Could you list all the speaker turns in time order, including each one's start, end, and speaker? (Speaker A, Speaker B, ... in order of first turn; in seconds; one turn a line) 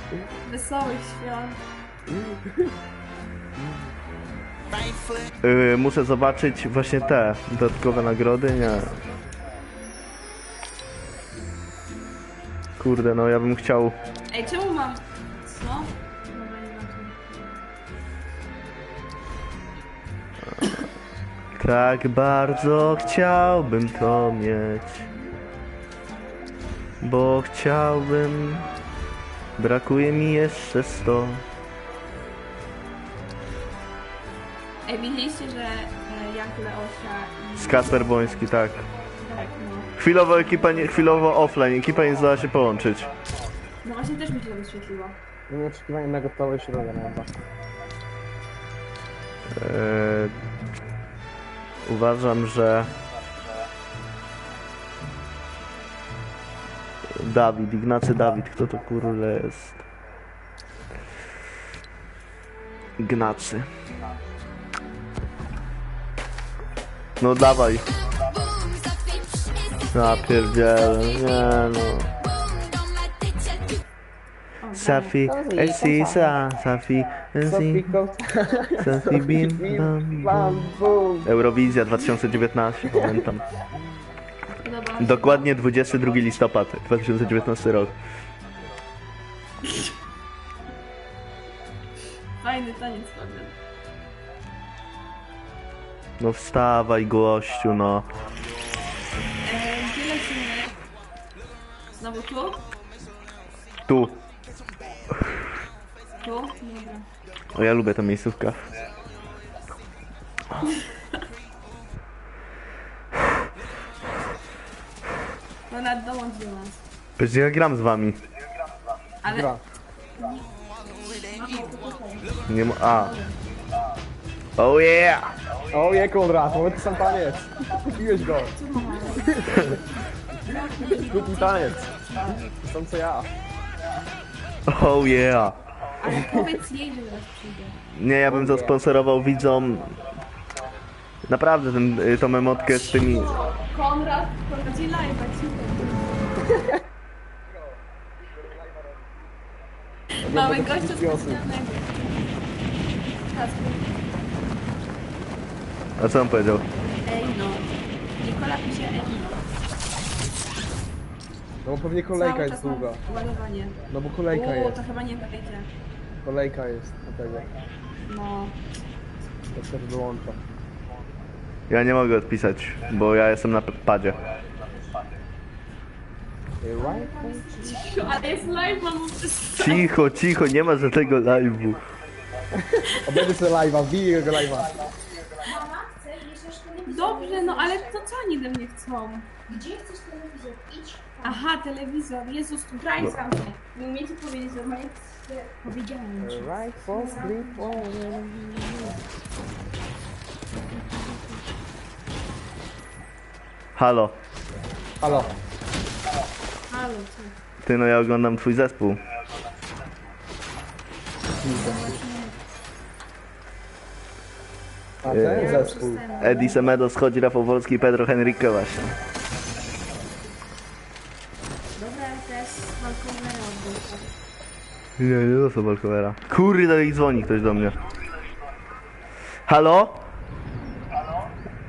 Speaker A: 0.5-1.6
Speaker B: 2.1-2.7
Speaker C: 5.4-9.0
Speaker C: 12.8-14.0
Speaker A: 14.3-17.6
Speaker C: 21.6-25.1
Speaker C: 27.0-28.7
Speaker C: 29.6-31.4
Speaker A: 34.9-39.9
Speaker C: 37.5-38.9
Speaker C: 40.0-43.1
Speaker A: 43.8-45.2
Speaker B: 45.5-47.4
Speaker C: 49.5-50.4
Speaker C: 51.8-52.9
Speaker C: 57.1-59.8
Speaker C: 63.0-63.7
Speaker C: 67.2-67.9
Speaker C: 69.9-72.1
Speaker A: 74.6-75.2
Speaker C: 74.8-77.9
Speaker B: 75.3-76.4
Speaker B: 77.4-81.3
Speaker C: 78.8-80.7
Speaker C: 81.2-83.5
Speaker A: 84.6-85.5
Speaker C: 85.0-88.0
Speaker A: 89.7-89.9
Speaker A: 92.4-93.5
Speaker C: 96.2-98.1
Speaker A: 99.4-100.8
Speaker A: 102.0-102.7
Speaker C: 103.9-104.2
Speaker A: 106.2-107.1
Speaker C: 107.5-108.7
Speaker A: 115.7-116.8
Speaker C: 117.2-118.2
Speaker A: 119.2-119.5
Speaker B: 119.3-119.6
Speaker A: 121.3-122.3
Speaker D: 121.3-122.2
Speaker C: 122.5-123.2
Speaker A: 122.8-123.3
Speaker C: 124.6-125.3
Speaker B: 125.7-128.6
Speaker A: 128.4-129.8
Speaker D: 128.8-129.2
Speaker B: 129.1-129.8
Speaker D: 130.5-132.3
Speaker A: 130.5-132.4
Speaker B: 131.0-133.3
Speaker C: 134.7-135.6
Speaker A: 136.0-137.8
Speaker B: 136.1-136.4
Speaker C: 137.9-139.9
Speaker B: 138.3-138.8
Speaker C: 141.3-143.3
Speaker A: 142.9-146.3
Speaker B: 150.2-151.4
Speaker A: 150.3-152.2
Speaker A: 153.2-154.2
Speaker C: 156.0-156.7
Speaker A: 157.0-159.4
Speaker B: 161.7-163.0
Speaker A: 162.1-165.7
Speaker B: 163.9-164.8
Speaker B: 166.2-167.5
Speaker A: 168.1-168.6
Speaker B: 169.5-170.4
Speaker C: 171.7-174.2
Speaker B: 176.6-177.4
Speaker D: 176.8-178.9
Speaker A: 177.5-179.9
Speaker C: 179.5-181.8
Speaker B: 182.6-184.7
Speaker D: 185.4-188.1
Speaker A: 186.9-189.3
Speaker D: 189.5-191.5
Speaker A: 191.2-195.6
Speaker D: 195.6-197.9
Speaker B: 196.2-198.7
Speaker A: 196.9-197.3
Speaker D: 200.6-201.5
Speaker C: 203.8-204.2
Speaker B: 205.0-205.3
Speaker A: 206.7-207.4
Speaker C: 207.6-209.0
Speaker B: 211.4-212.0
Speaker D: 211.5-212.1
Speaker A: 211.6-212.4
Speaker B: 215.0-216.1
Speaker C: 215.1-218.9
Speaker D: 215.2-216.7
Speaker A: 215.3-216.4
Speaker A: 221.8-224.1
Speaker C: 225.0-227.8
Speaker C: 229.5-230.0